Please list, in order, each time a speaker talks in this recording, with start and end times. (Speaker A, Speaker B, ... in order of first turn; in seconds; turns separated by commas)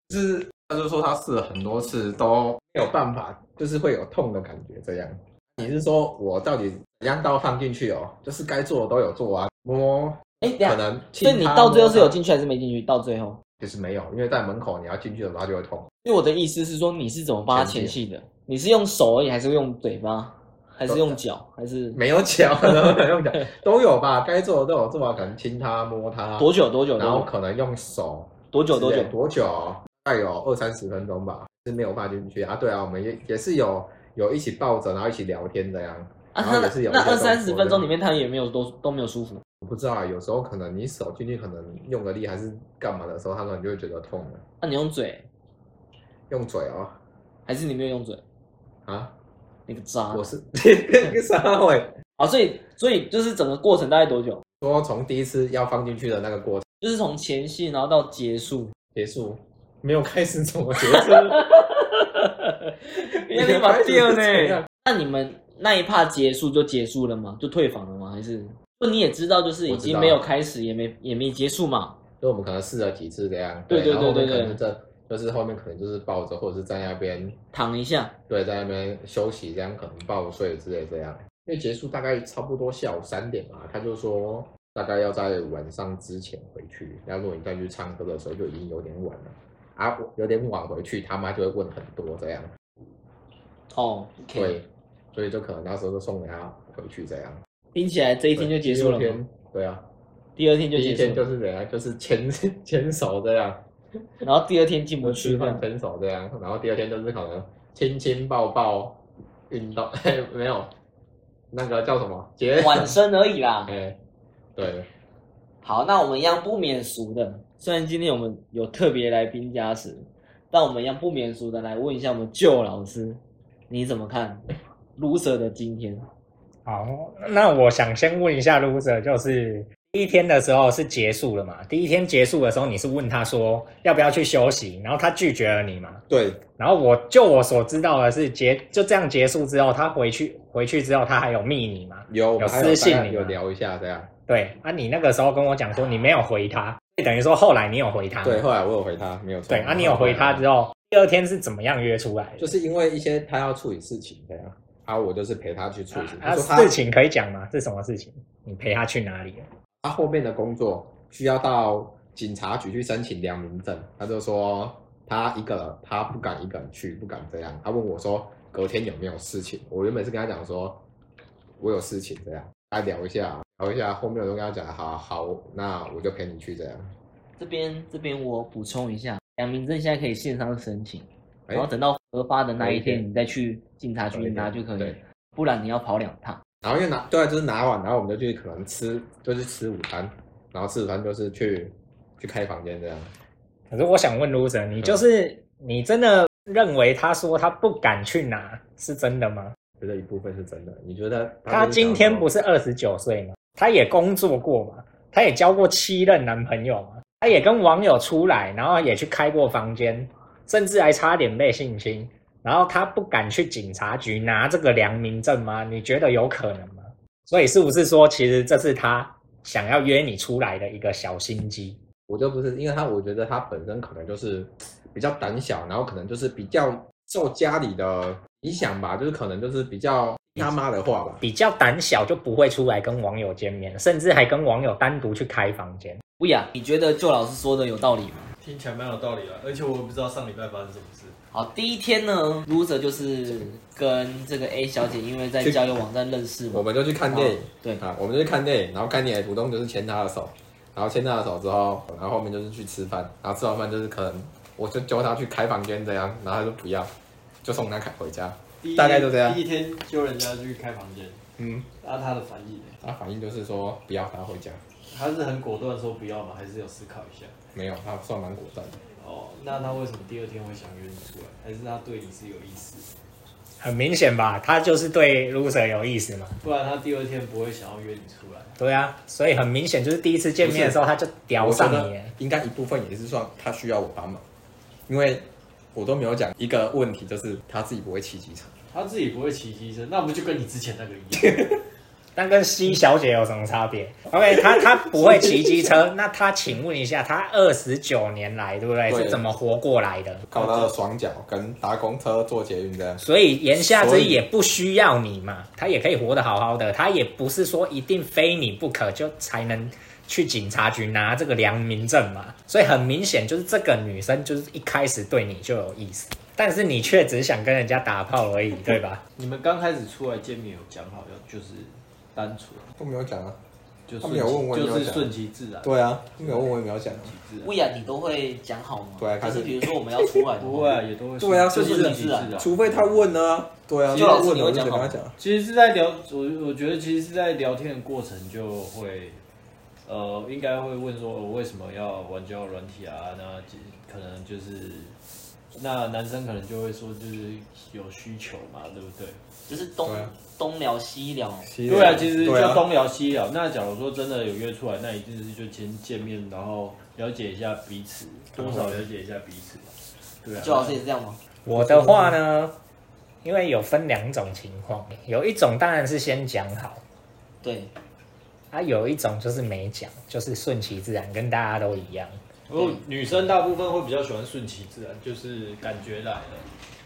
Speaker A: 0.1-12.2, Speaker B: 10.4-13.4, Speaker A: 13.6-15.9, Speaker B: 16.0-22.0, Speaker A: 17.5-17.9, Speaker A: 20.9-21.2, Speaker A: 21.9-37.9, Speaker B: 26.4-27.3, Speaker B: 28.5-29.1, Speaker B: 36.3-39.4, Speaker A: 39.6-44.4, Speaker B: 44.6-45.3, Speaker A: 46.3-47.0, Speaker B: 47.5-48.2, Speaker A: 48.9-49.1, Speaker B: 49.7-50.3, Speaker A: 50.1-51.9, Speaker B: 52.2-54.4, Speaker A: 54.6-56.6, Speaker B: 56.8-58.7, Speaker A: 58.9-61.4, Speaker B: 60.8-72.0, Speaker A: 63.3-64.7, Speaker A: 69.7-70.2, Speaker A: 72.2-77.4, Speaker B: 73.7-74.6, Speaker B: 77.5-78.2, Speaker A: 78.3-92.5, Speaker B: 93.7-94.6, Speaker A: 94.3-97.4, Speaker B: 97.7-99.2, Speaker A: 98.3-99.8, Speaker B: 100.3-101.2, Speaker A: 100.7-103.6, Speaker B: 104.2-105.6, Speaker A: 105.0-110.7, Speaker A: 111.5-112.9, Speaker B: 112.6-113.7, Speaker A: 113.7-114.0, Speaker A: 114.5-114.9, Speaker B: 115.6-124.5, Speaker B: 125.0-126.1, Speaker C: 126.7-136.0, Speaker A: 136.1-136.4, Speaker C: 136.6-143.4, Speaker A: 142.1-144.1, Speaker C: 144.3-148.4, Speaker A: 148.2-150.5, Speaker C: 149.5-152.5, Speaker A: 152.4-156.7, Speaker C: 155.9-159.5, Speaker A: 159.8-170.8, Speaker A: 171.6-176.9, Speaker B: 177.4-186.4, Speaker A: 182.6-183.0, Speaker A: 184.1-185.0, Speaker A: 186.6-193.1, Speaker C: 193.7-199.6, Speaker A: 194.8-195.0, Speaker A: 199.8-202.3, Speaker C: 201.5-221.8, Speaker A: 222.1-231.2, Speaker C: 231.2-236.0, Speaker B: 236.2-238.3, Speaker D: 238.4-241.2, Speaker B: 241.3-247.8, Speaker A: 246.5-256.9, Speaker A: 257.4-259.4, Speaker D: 258.6-261.2, Speaker A: 261.4-261.7, Speaker D: 261.8-262.8, Speaker A: 262.8-264.6, Speaker D: 264.9-267.3, Speaker A: 267.5-268.8, Speaker D: 269.0-272.9, Speaker C: 273.6-276.4, Speaker D: 276.4-278.5, Speaker C: 278.6-282.1, Speaker A: 280.4-280.8, Speaker A: 281.4-284.2, Speaker A: 284.9-288.5, Speaker D: 288.7-291.6, Speaker C: 292.1-300.2, Speaker A: 294.3-295.8, Speaker A: 298.9-299.2, Speaker A: 300.3-303.0, Speaker C: 303.0-319.0, Speaker A: 303.6-304.2, Speaker D: 319.2-322.7, Speaker A: 322.8-323.4, Speaker D: 323.9-327.5, Speaker A: 324.0-325.1, Speaker A: 325.6-327.1, Speaker B: 327.4-330.8, Speaker A: 329.0-330.2, Speaker D: 330.4-333.1, Speaker A: 331.2-335.2, Speaker B: 331.5-332.3, Speaker B: 333.9-335.0, Speaker D: 335.2-339.2, Speaker D: 339.9-344.9, Speaker D: 345.5-349.2, Speaker B: 349.5-351.5, Speaker A: 349.9-350.1, Speaker A: 351.4-352.6, Speaker D: 351.6-360.8, Speaker A: 358.4-358.8, Speaker B: 360.4-361.2, Speaker C: 361.4-362.6, Speaker A: 361.5-362.1, Speaker C: 363.2-366.8, Speaker B: 367.4-367.7, Speaker C: 368.5-372.2, Speaker D: 372.5-376.4, Speaker B: 372.5-372.8